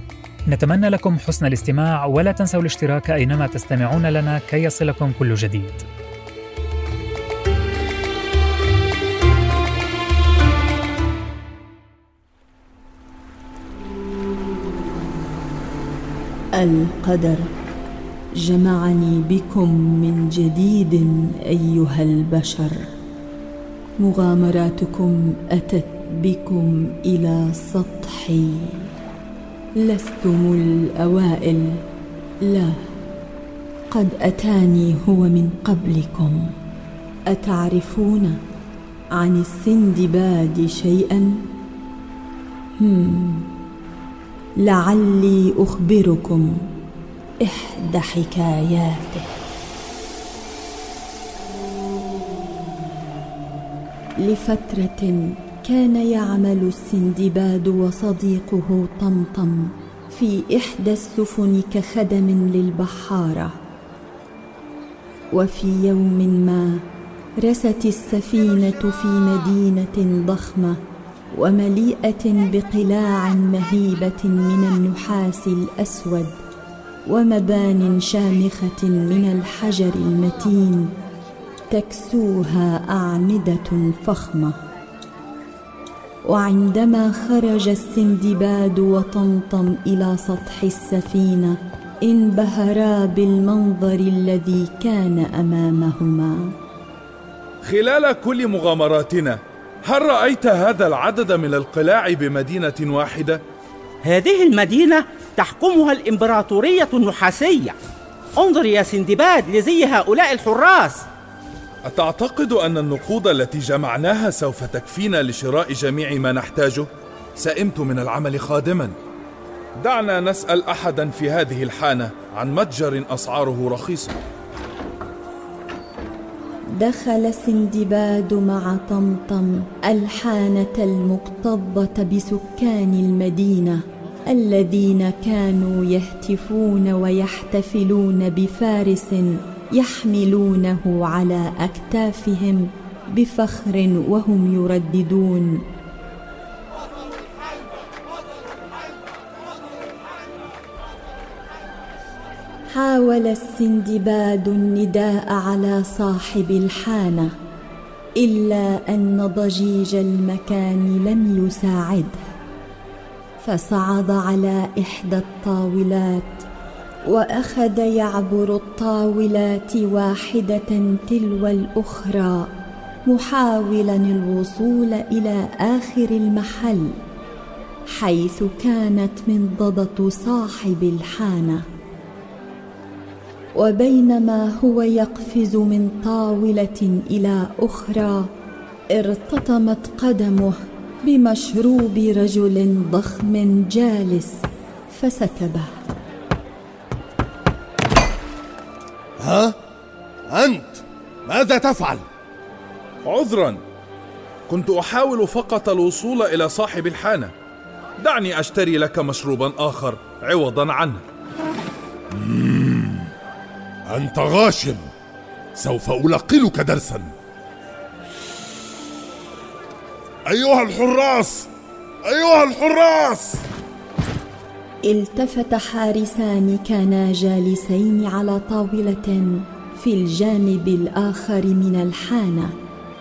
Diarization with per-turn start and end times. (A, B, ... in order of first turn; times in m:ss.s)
0:00.4-0:05.8 A
0:16.6-0:17.5 B
0:18.4-0:22.9 B
0:24.0-0:28.9 B
0:29.8-0:31.8 B
0:32.4-0:32.8 B
0:33.9-0:36.5 B
0:37.3-0:38.4 B
0:39.1-0:41.4 B
0:42.8-0:43.5 B
0:44.6-0:46.6 B
0:47.4-0:49.3 B
0:54.2-1:03.5 B
1:05.3-1:06.8 B
1:07.4-1:10.8 B
1:11.3-1:16.4 B
1:17.1-1:20.9 B
1:21.7-1:24.6 B
1:26.2-1:36.5 B
1:37.6-1:43.4 C
1:44.0-1:47.8 D
1:48.4-1:51.0 D
1:51.8-1:58.9 C
1:59.8-2:04.2 C
2:06.8-2:25.6 B
2:32.7-2:37.3 B
2:38.2-2:42.2 B
2:43.4-2:46.4 B
2:47.0-2:52.5 B
2:53.1-2:56.9 B
2:58.0-3:01.6 B
3:03.6-3:08.3 B
3:08.9-3:15.7 B
3:19.2-3:19.5 E
3:20.3-3:22.0 E
3:23.0-3:23.6 C
3:24.5-3:27.3 C
3:28.0-3:31.0 C
3:32.2-3:33.0 E
3:33.9-3:34.9 E
3:35.6-3:37.1 E
3:40.3-3:41.5 E
3:42.0-3:43.4 E
3:44.8-3:52.5 B